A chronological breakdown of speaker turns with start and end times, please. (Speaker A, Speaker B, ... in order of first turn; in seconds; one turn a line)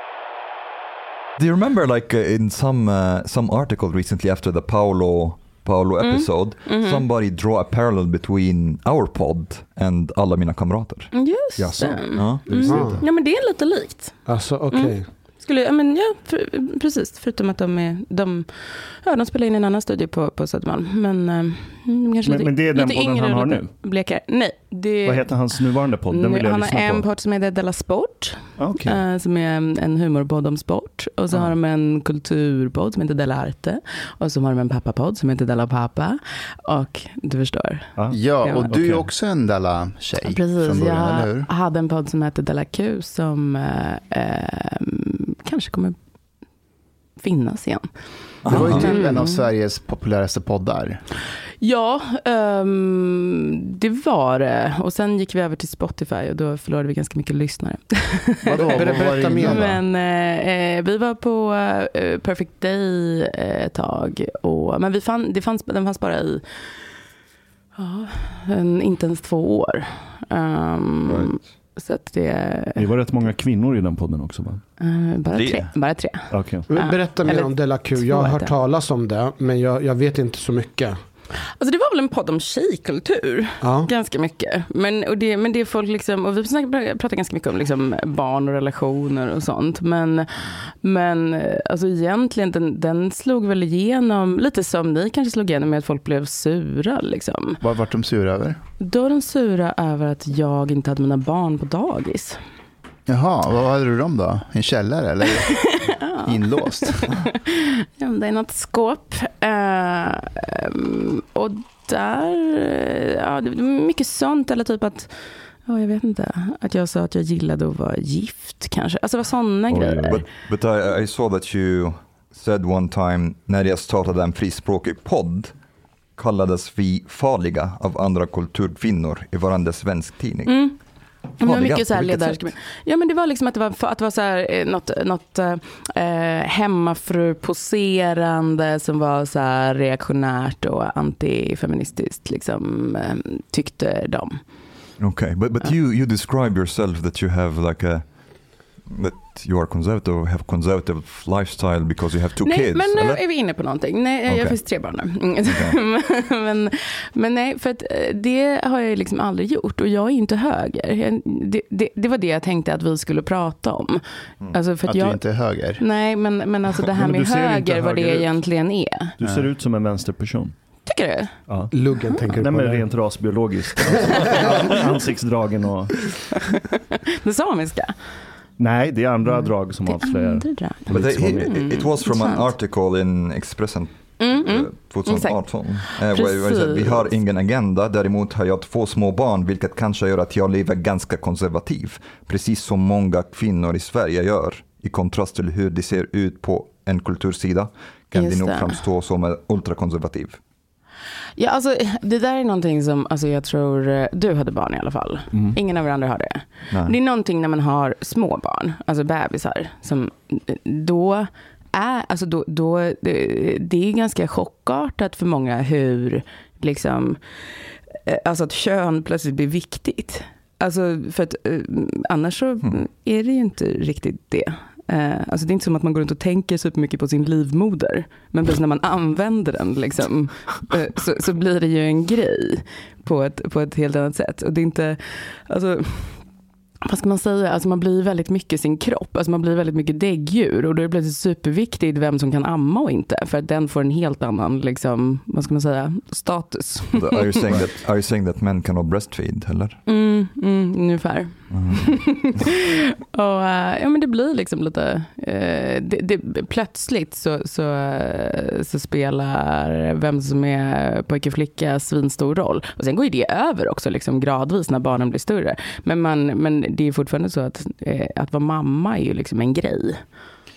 Speaker A: 1.4-11.1
Speaker B: 6.0-7.0
Speaker B: 11.1-14.2
Speaker C: 11.6-13.0
Speaker A: 12.1-12.8
Speaker D: 12.7-13.0
Speaker D: 14.3-15.1
Speaker B: 14.7-18.5
Speaker B: 19.0-25.6
Speaker C: 22.2-23.7
Speaker C: 25.1-27.0
Speaker B: 26.1-37.9
Speaker C: 28.6-29.0
Speaker E: 38.1-41.5
Speaker B: 38.4-38.7
Speaker C: 38.7-39.0
Speaker B: 40.2-46.0
Speaker B: 47.2-47.9
Speaker A: 48.4-49.0
Speaker E: 48.5-51.0
Speaker B: 48.6-49.5
Speaker B: 51.6-66.4
Speaker E: 58.5-59.8
Speaker D: 58.6-59.7
Speaker B: 67.8-72.9
Speaker A: 71.1-71.3
Speaker C: 72.8-74.6
Speaker B: 74.8-78.5
Speaker A: 75.3-75.7
Speaker C: 76.3-76.7
Speaker D: 76.7-81.0
Speaker B: 81.6-97.6
Speaker D: 83.6-83.9
Speaker E: 97.6-98.6
Speaker B: 98.8-102.4
Speaker E: 103.1-107.1
Speaker B: 105.5-115.1
Speaker B: 115.7-120.2
Speaker C: 119.7-120.2
Speaker A: 120.1-125.5
Speaker A: 126.2-130.6
Speaker B: 130.5-130.8
Speaker B: 131.4-144.4
Speaker A: 131.4-132.5
Speaker A: 145.0-148.1
Speaker A: 148.8-153.2
Speaker B: 152.4-165.2
Speaker A: 154.3-154.6
Speaker A: 155.4-155.8
Speaker E: 164.9-165.8
Speaker B: 165.8-169.1
Speaker C: 166.9-168.4
Speaker C: 169.2-170.5
Speaker B: 170.9-171.3
Speaker C: 171.5-171.7
Speaker D: 171.7-172.8
Speaker C: 172.3-176.1
Speaker D: 174.1-174.8
Speaker B: 176.4-177.9
Speaker C: 178.6-181.5
Speaker B: 179.4-182.5
Speaker A: 180.9-200.4
Speaker B: 184.2-187.1
Speaker B: 198.1-198.8
Speaker B: 201.4-217.2
Speaker A: 206.7-207.0
Speaker B: 218.1-236.2
Speaker B: 236.8-247.6
Speaker A: 246.9-249.8
Speaker B: 249.9-270.0
Speaker A: 251.5-251.9